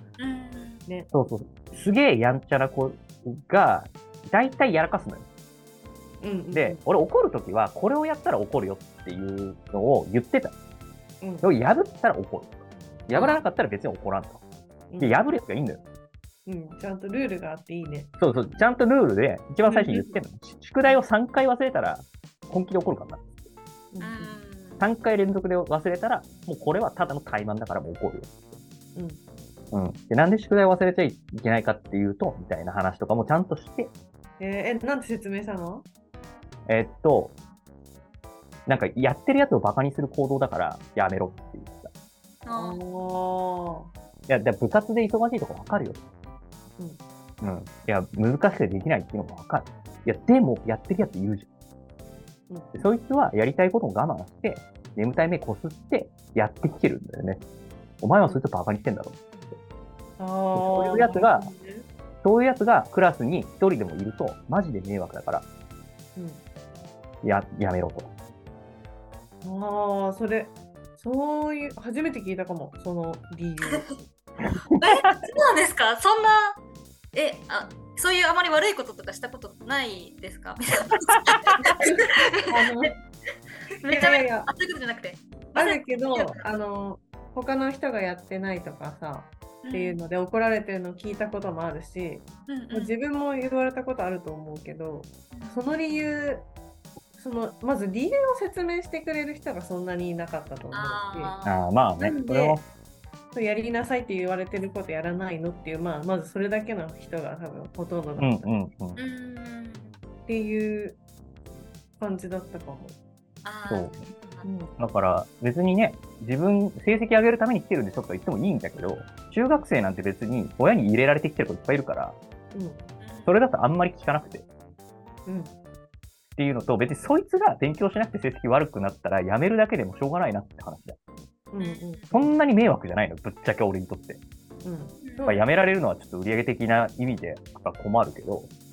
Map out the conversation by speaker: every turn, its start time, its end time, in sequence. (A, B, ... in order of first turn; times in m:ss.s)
0:00.2-0:00.8 A
0:01.1-0:05.2 B
0:06.2-0:06.8 C
0:06.5-0:10.6 B
0:11.4-0:14.4 B
0:13.1-0:13.4 A
0:14.9-0:15.2 C
0:15.0-0:15.8 B
0:16.4-0:18.1 C
0:18.2-0:23.3 B
0:19.6-0:20.2 C
0:23.9-0:24.3 C
0:24.0-0:24.8 A
0:24.8-0:28.6 B
0:29.0-0:29.2 C
0:29.7-0:33.9 B
0:34.4-0:35.8 C
0:36.7-0:37.3 B
0:38.7-0:41.9 B
0:42.4-0:42.8 A
0:42.5-0:43.9 C
0:44.3-0:46.0 B
0:47.4-0:51.5 B
0:52.5-0:52.7 C
0:52.7-0:57.4 B
0:58.0-0:59.2 B
1:00.2-1:01.9 C
1:00.6-1:01.5 B
1:02.2-1:05.4 B
1:06.2-1:06.4 C
1:07.2-1:08.1 B
1:09.4-1:13.9 C
1:14.8-1:15.2 B
1:14.8-1:16.6 A
1:17.1-1:22.6 A
1:21.8-1:23.0 C
1:23.8-1:26.4 A
1:23.9-1:24.5 C
1:25.6-1:36.5 C
1:29.6-1:30.0 A
1:32.5-1:33.0 A
1:35.3-1:35.7 A
1:37.1-1:41.3 C
1:40.7-1:42.5 A
1:41.4-1:42.6 B
1:43.3-1:48.5 C
1:48.2-1:49.0 B
1:49.0-1:49.9 A
1:50.3-1:51.0 C
1:52.0-1:53.0 C
1:53.4-1:54.5 A
1:53.7-1:54.0 B
1:54.4-1:54.7 C
1:54.8-2:02.2 B
2:02.5-2:02.8 C
2:03.0-2:03.3 A
2:03.2-2:04.4 B
2:05.2-2:05.5 C
2:06.4-2:11.0 B
2:11.5-2:12.3 C
2:11.6-2:12.0 A
2:12.1-2:14.2 B
2:14.6-2:15.4 C
2:15.0-2:15.4 A
2:15.2-2:18.5 B